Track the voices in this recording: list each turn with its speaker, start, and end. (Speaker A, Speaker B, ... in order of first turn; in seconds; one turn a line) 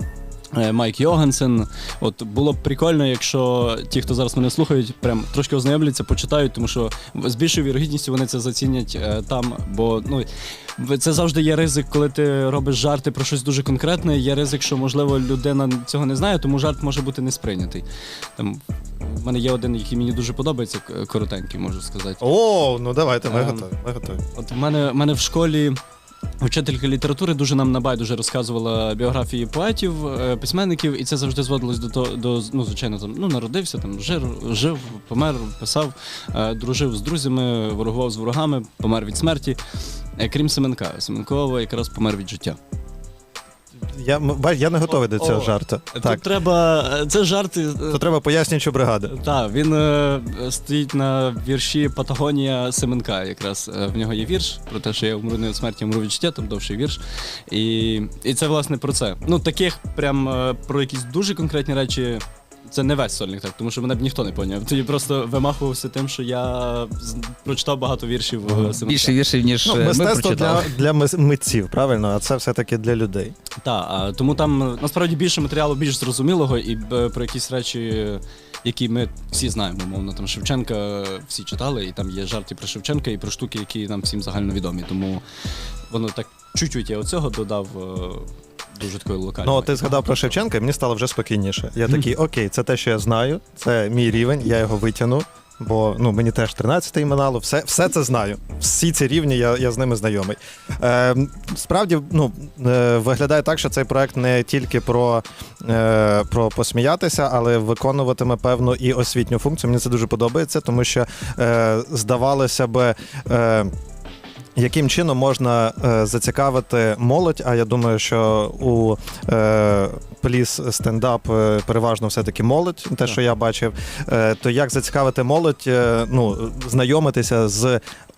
Speaker A: 0.5-17.9
Speaker A: 18.4-22.2
Speaker B: 22.2-24.2
Speaker A: 23.2-23.7
Speaker A: 24.3-25.8
Speaker A: 26.4-39.6
Speaker A: 40.2-42.6
Speaker B: 43.9-46.2
Speaker A: 44.9-48.0
Speaker B: 47.9-49.1
Speaker A: 49.1-69.2
Speaker C: 68.5-70.7
Speaker B: 69.6-73.3
Speaker A: 73.6-85.2
Speaker A: 85.9-90.2
Speaker B: 89.4-113.7
Speaker B: 114.5-127.8